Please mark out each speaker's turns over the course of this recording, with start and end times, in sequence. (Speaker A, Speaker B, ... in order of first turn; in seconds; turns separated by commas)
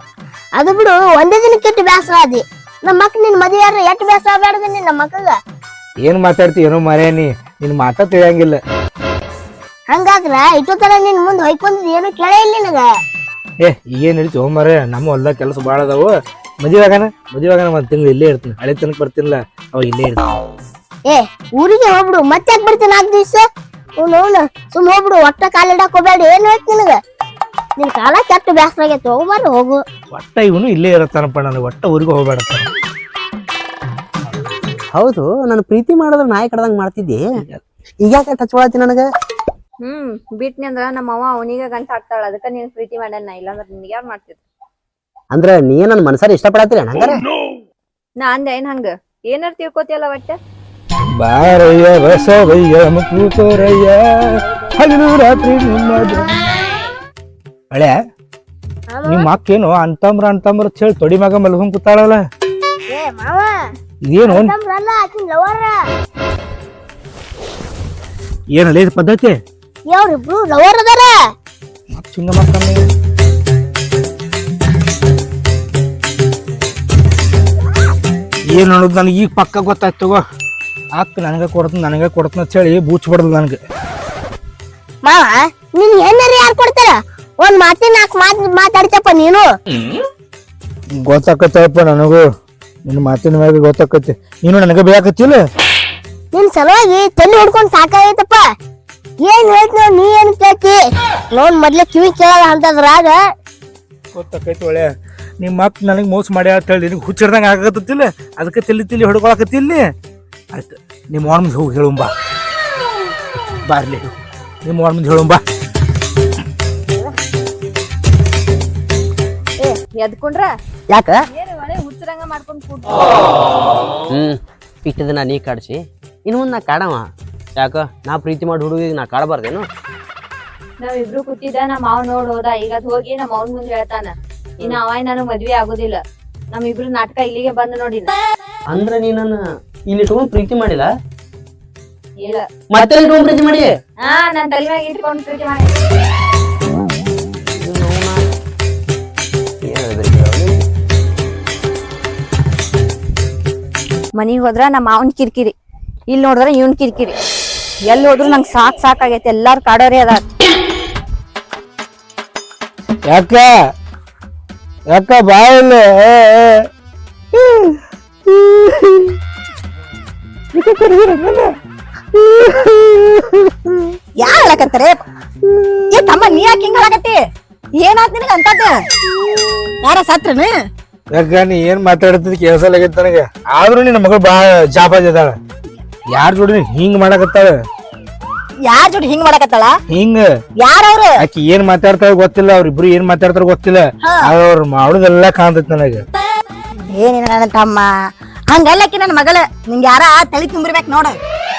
Speaker A: 0.6-5.4, Speaker B: 6.0-8.6, Speaker A: 9.9-12.9, Speaker B: 13.6-20.3, Speaker A: 21.1-23.5, Speaker A: 24.0-27.0, Speaker A: 27.8-29.8, Speaker B: 30.1-32.7, Speaker C: 34.9-37.2, Speaker C: 38.0-39.0, Speaker D: 39.8-44.4, Speaker C: 45.3-47.2, Speaker D: 48.2-50.4, Speaker B: 51.2-56.5, Speaker A: 58.9-59.3, Speaker B: 59.1-62.2, Speaker A: 62.9-63.6, Speaker B: 64.0-64.5, Speaker A: 64.2-65.8, Speaker B: 68.5-69.3, Speaker A: 69.9-71.1, Speaker B: 71.9-72.9, Speaker B: 78.5-80.2, Speaker B: 80.9-83.6, Speaker A: 85.0-89.5, Speaker B: 91.0-92.2, Speaker B: 92.8-95.4, Speaker A: 96.3-98.5, Speaker A: 99.2-100.8, Speaker A: 101.3-103.2, Speaker B: 104.1-109.8, Speaker B: 110.5-112.1, Speaker B: 113.7-114.1, Speaker B: 114.6-115.4, Speaker D: 119.6-120.5, Speaker C: 120.9-121.2, Speaker D: 121.3-123.0, Speaker C: 124.1-127.0, Speaker C: 127.6-129.7, Speaker D: 130.8-136.0, Speaker D: 136.5-138.2, Speaker C: 138.7-139.4, Speaker C: 139.9-140.9, Speaker C: 142.7-143.7, Speaker D: 144.0-145.7, Speaker C: 147.5-148.2, Speaker C: 149.6-150.6, Speaker D: 154.2-155.5, Speaker D: 156.1-157.2, Speaker D: 157.8-160.2, Speaker B: 163.1-163.5, Speaker B: 164.9-166.6, Speaker B: 167.3-169.2, Speaker B: 170.5-171.6, Speaker B: 172.1-173.4, Speaker E: 174.2-175.0, Speaker E: 175.9-177.2, Speaker E: 177.8-178.7, Speaker E: 179.8-180.5, Speaker B: 181.1-185.3, Speaker B: 186.1-187.5, Speaker E: 188.7-189.7, Speaker B: 189.9-190.2, Speaker E: 190.6-191.1, Speaker B: 191.2-196.0, Speaker E: 196.9-197.9, Speaker E: 198.5-201.1